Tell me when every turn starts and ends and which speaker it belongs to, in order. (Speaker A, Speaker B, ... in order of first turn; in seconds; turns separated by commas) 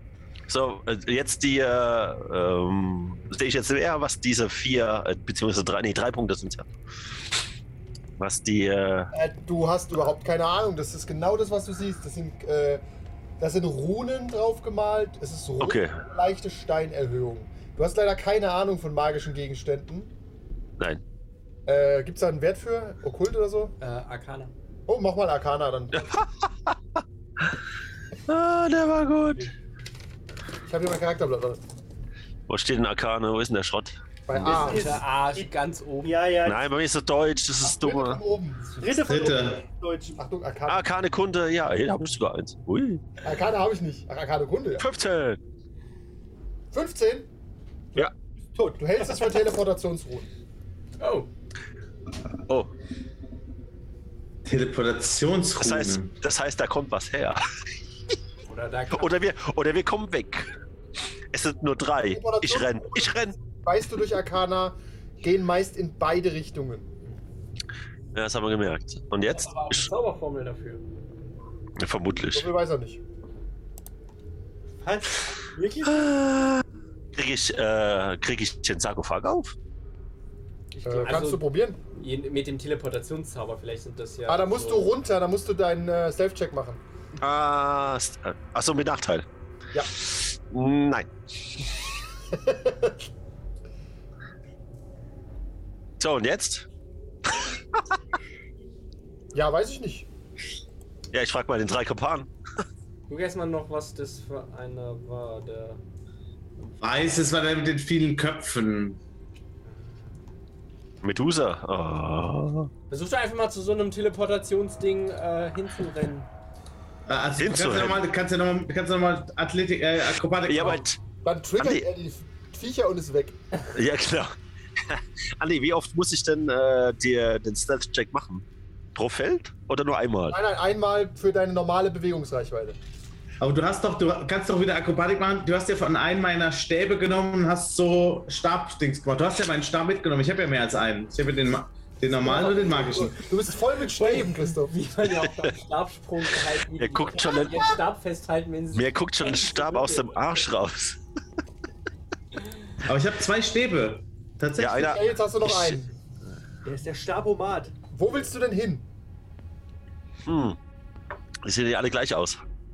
Speaker A: 0.5-6.7, Speaker A: 8.2-9.1, Speaker B: 9.1-12.8, Speaker B: 13.4-20.1, Speaker A: 15.6-16.0, Speaker B: 21.6-23.7, Speaker C: 23.8-24.5, Speaker B: 24.9-26.2, Speaker A: 26.0-26.7, Speaker A: 28.3-29.5, Speaker B: 30.6-31.6, Speaker A: 32.5-33.9, Speaker B: 34.3-35.0, Speaker D: 34.4-35.5, Speaker C: 34.5-36.2, Speaker D: 36.0-36.7, Speaker A: 36.4-38.2, Speaker B: 37.6-39.1, Speaker D: 38.8-40.2, Speaker E: 39.0-39.6, Speaker B: 40.2-40.9, Speaker A: 40.7-43.0, Speaker B: 43.2-44.9, Speaker A: 44.8-45.4, Speaker B: 46.7-47.3, Speaker D: 48.5-48.8, Speaker B: 48.8-50.3, Speaker C: 51.0-51.3, Speaker E: 54.4-56.1, Speaker A: 55.6-57.4, Speaker C: 58.4-59.1, Speaker A: 58.9-60.5, Speaker A: 61.3-63.4, Speaker B: 62.0-66.9, Speaker A: 68.1-69.9, Speaker C: 69.3-70.8, Speaker A: 71.8-72.5, Speaker B: 72.3-73.0, Speaker D: 74.8-76.1, Speaker A: 75.8-79.5, Speaker C: 80.7-84.9, Speaker B: 80.8-81.8, Speaker B: 84.3-86.8, Speaker A: 87.2-89.2, Speaker A: 90.0-91.1, Speaker B: 92.3-93.0, Speaker A: 96.0-96.7, Speaker B: 99.3-100.1, Speaker A: 101.1-102.3, Speaker C: 103.1-105.8, Speaker E: 106.7-109.0, Speaker A: 111.0-112.7, Speaker C: 112.9-116.3, Speaker E: 117.1-120.8, Speaker A: 117.4-118.0, Speaker A: 120.5-121.0, Speaker B: 121.2-123.4, Speaker A: 121.6-121.8, Speaker A: 123.7-128.4, Speaker A: 128.9-130.4, Speaker B: 130.3-132.8, Speaker E: 133.4-143.2, Speaker B: 142.1-144.7, Speaker C: 143.9-150.1, Speaker A: 145.1-145.5, Speaker A: 146.8-147.7, Speaker A: 148.7-151.0, Speaker E: 152.8-155.0, Speaker A: 154.6-155.8, Speaker B: 154.6-155.9, Speaker D: 156.6-157.7, Speaker B: 157.9-158.9, Speaker A: 160.2-160.6, Speaker A: 161.4-162.4